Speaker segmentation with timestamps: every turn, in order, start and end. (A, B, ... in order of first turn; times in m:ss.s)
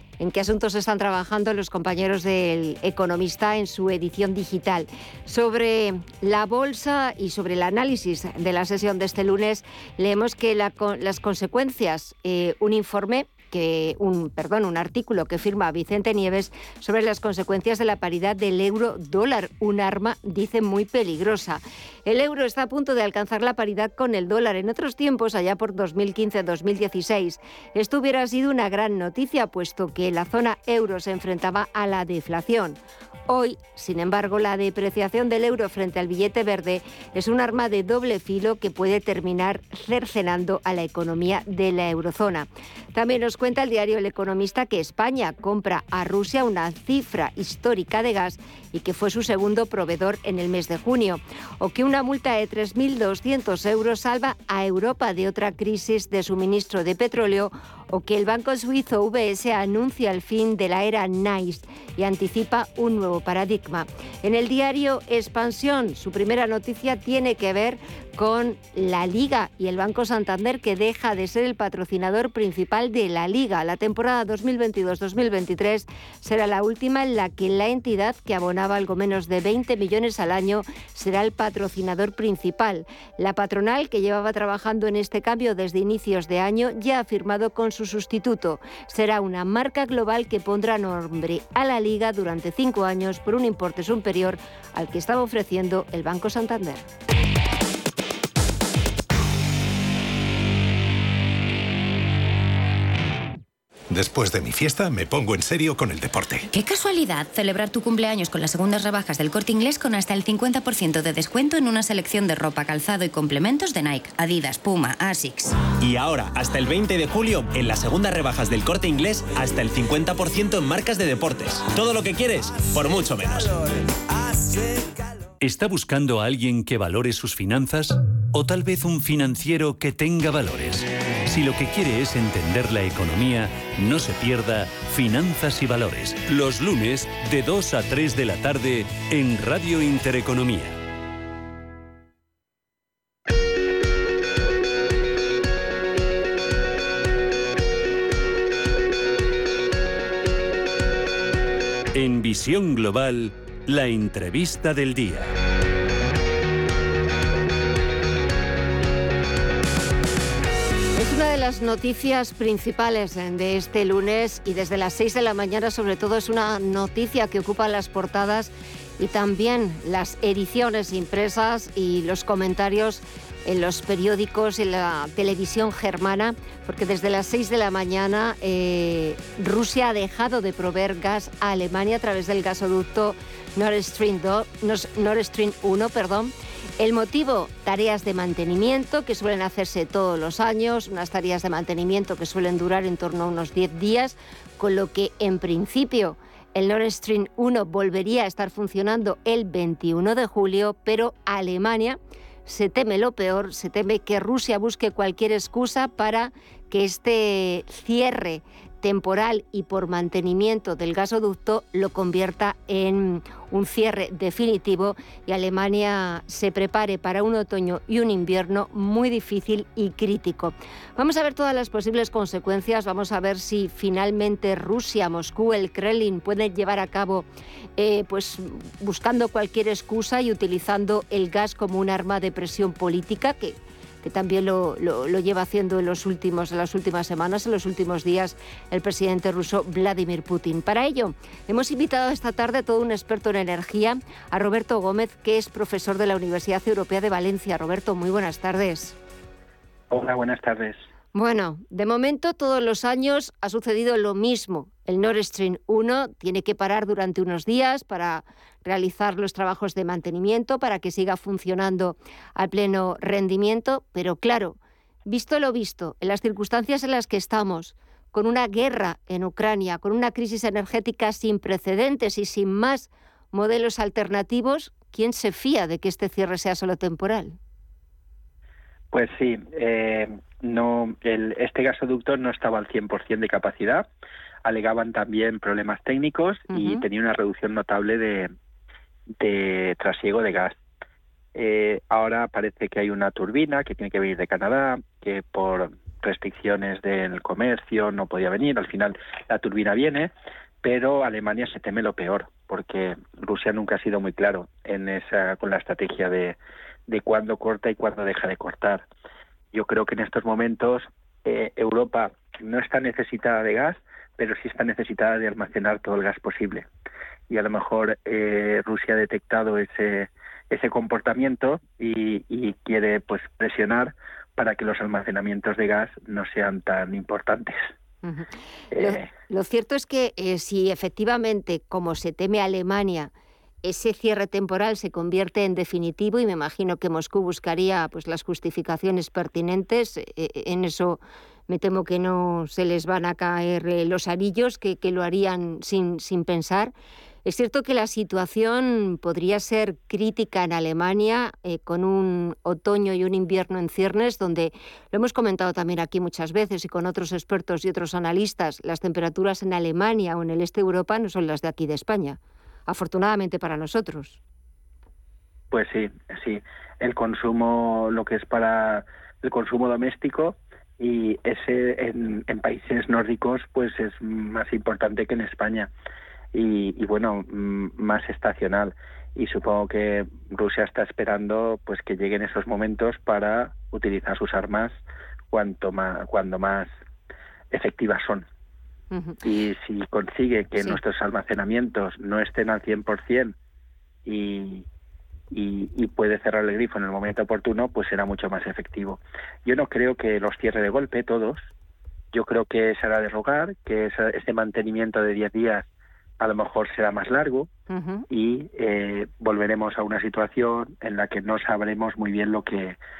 0:00.2-1:36.8 A
1:43.9-1:46.5 B
1:46.5-1:55.5 C
1:55.8-2:03.7 D
2:05.4-2:20.8 E
2:31.9-2:35.3 E
2:41.0-4:08.9 A
4:09.9-4:10.8 F
4:11.1-4:37.4 A
4:38.9-4:43.9 F
4:44.4-4:48.3 F
4:46.5-4:46.8 A
4:49.2-4:50.6 F
4:51.3-5:00.1 F
5:00.6-5:06.4 F
5:06.9-5:08.8 F
5:09.5-5:16.7 F
5:17.3-5:27.7 F
5:28.0-5:33.1 A
5:28.7-5:29.1 F
5:33.6-5:46.7 A
5:47.2-6:04.2 A
6:05.5-6:15.7 F
6:16.3-6:24.8 F
6:25.3-6:26.7 F
6:27.5-6:28.2 F
6:28.9-6:29.2 A
6:29.2-6:33.3 F
6:34.0-6:34.6 F
6:35.3-6:41.4 F
6:42.1-6:45.6 F
6:46.2-6:47.5 F
6:47.7-6:48.0 A
6:48.1-6:52.8 F